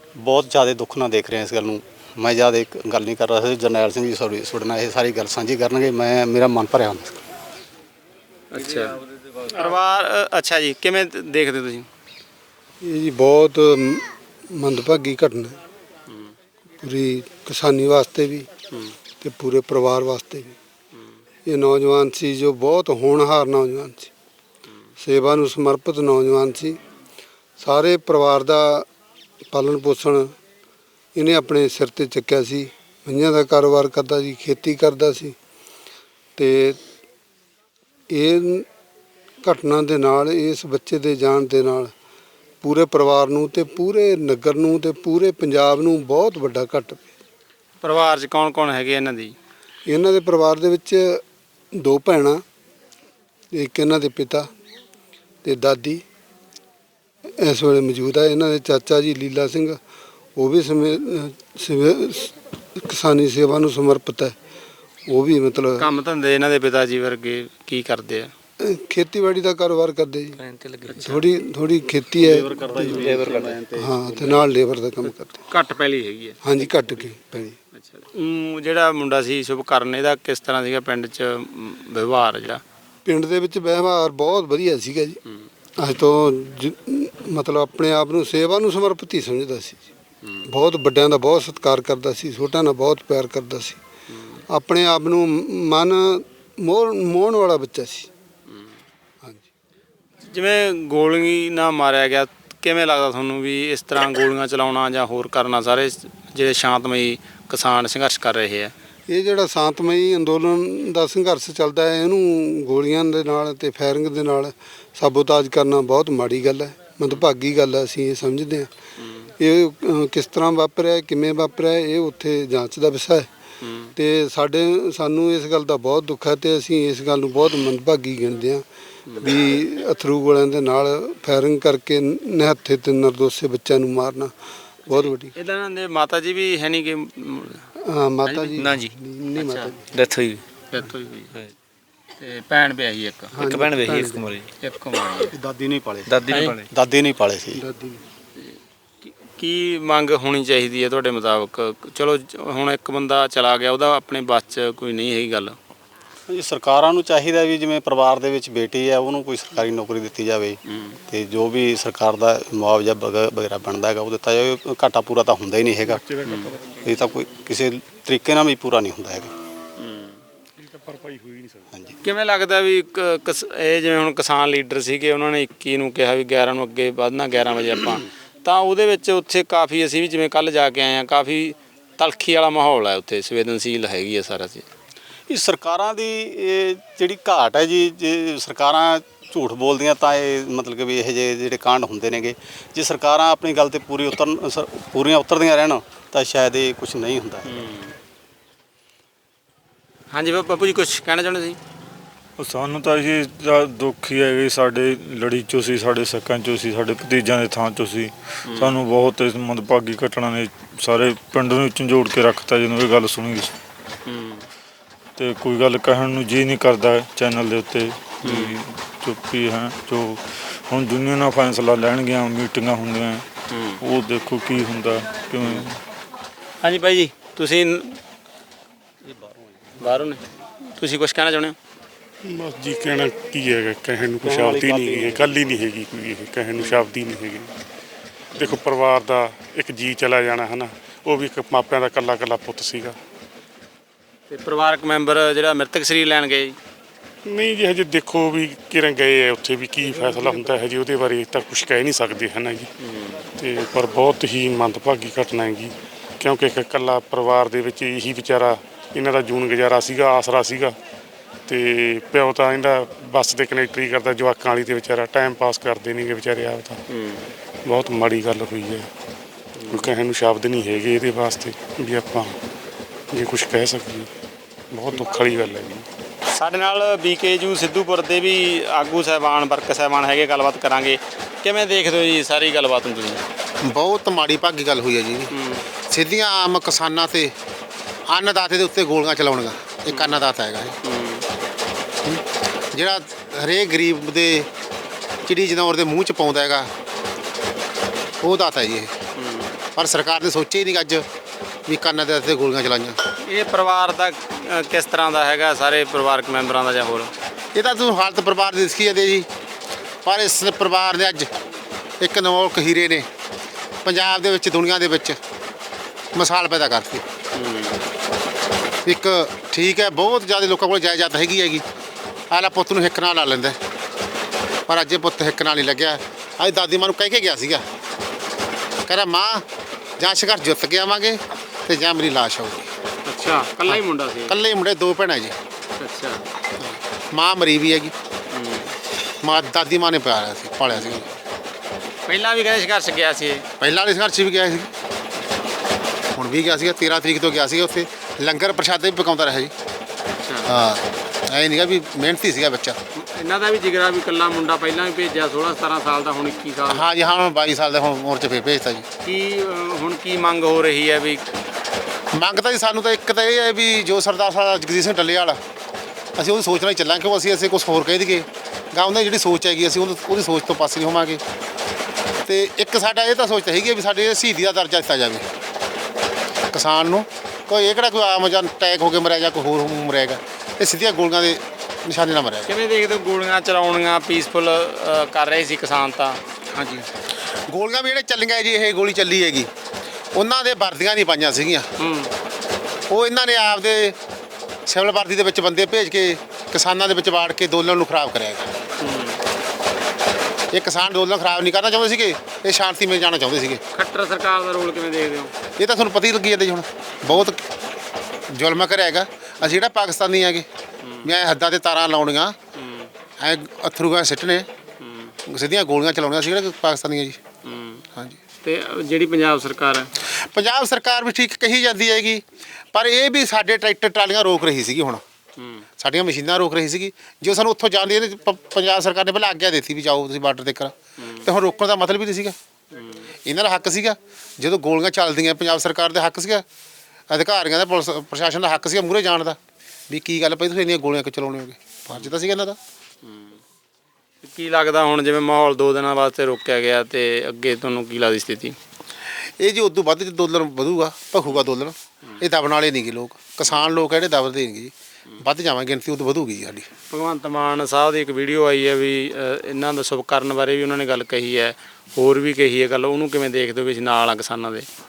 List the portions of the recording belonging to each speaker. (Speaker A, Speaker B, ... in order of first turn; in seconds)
Speaker A: 0.2-7.2, 72.2-74.5, 145.3-147.6, 156.3-166.0, 166.8-169.3, 185.3-197.6, 234.2-235.5
Speaker B: 8.5-11.9, 47.8-49.3, 65.8-68.3, 70.8-71.1, 75.0-76.4, 77.8-82.6, 100.3-108.7, 123.6-123.9, 134.9-137.6, 138.2-138.7, 139.3-139.7, 140.7-141.4, 142.2-143.3, 144.6-145.3, 146.3-146.6, 149.0-155.6, 160.7-160.9, 166.2-166.5, 169.8-170.1, 172.0-184.7, 197.5-197.9, 200.1-201.6, 214.1-214.4, 218.2-218.5, 223.5-223.8, 226.6-228.0, 229.8-230.2, 230.8-231.5, 236.6-236.8, 244.3-246.6, 252.8-253.2, 266.9-267.3, 269.6-269.9, 276.4-283.2, 285.3-285.6, 289.9-290.2, 290.8-291.2, 299.2-299.5, 303.2-307.1, 317.3-317.8, 333.1-334.3, 335.8-336.2, 338.3-338.7, 340.7-341.1, 342.1-343.4, 350.2-350.5, 352.9-356.9, 359.0-361.2, 382.5-386.8, 391.8-392.1, 398.8-399.2, 403.7-405.3, 412.6-412.9, 414.8-415.1, 417.4-417.8, 418.4-419.9, 432.7-433.0, 444.2-448.6, 456.9-464.6
Speaker C: 12.8-15.6, 16.8-18.5, 19.2-20.6, 21.4-24.1, 25.0-26.8, 27.6-28.8, 29.5-30.3, 31.1-35.4, 36.4-36.8, 38.1-38.7, 39.4-41.9, 42.6-47.1, 49.9-51.2, 51.8-52.4, 53.5-54.5, 55.4-56.0, 57.4-59.8, 60.4-64.3, 65.1-65.9, 68.6-70.4, 71.0-75.4, 76.4-77.6, 83.0-85.2, 85.8-89.9, 90.5-93.8, 94.5-98.1, 109.1-118.7, 119.4-123.3, 124.0-128.6, 129.2-134.3, 134.9-135.3, 137.8-139.9, 143.3-144.3, 147.5-148.0
Speaker D: 73.1-73.5, 138.6-138.9, 139.9-140.4, 143.4-144.5, 146.1-146.7
Speaker E: 166.1-166.5, 170.6-171.7, 232.2-237.5, 238.3-242.9, 247.3-252.7, 253.4-260.7, 261.5-266.8, 267.6-268.9, 269.7-272.3, 273.1-274.1, 274.7-275.8
Speaker F: 202.4-213.5, 215.2-223.3, 223.8-225.8
Speaker G: 283.6-285.3, 285.9-287.3, 288.1-290.8, 292.0-294.5, 295.2-296.7, 298.2-298.9, 299.7-301.0, 301.7-303.0, 307.5-309.3, 310.0-311.3, 312.0-313.1, 313.8-315.2, 316.1-317.0, 318.8-321.6, 322.3-323.6, 324.7-327.6, 328.9-329.4, 330.0-332.7, 333.7-335.3, 337.1-337.9, 339.2-341.0, 343.6-344.7, 346.1-349.5, 350.5-352.8, 356.7-358.8, 362.1-365.4, 366.2-371.2, 372.3-375.2, 376.5-382.5, 387.5-389.5, 390.1-391.6, 392.9-393.9, 394.7-398.5, 400.5-403.6, 405.6-407.4, 408.3-410.4, 411.0-412.3, 413.2-414.5, 415.3-417.2, 420.2-425.0, 425.8-432.3, 433.2-436.4, 437.1-439.4, 439.9-442.6, 449.4-456.7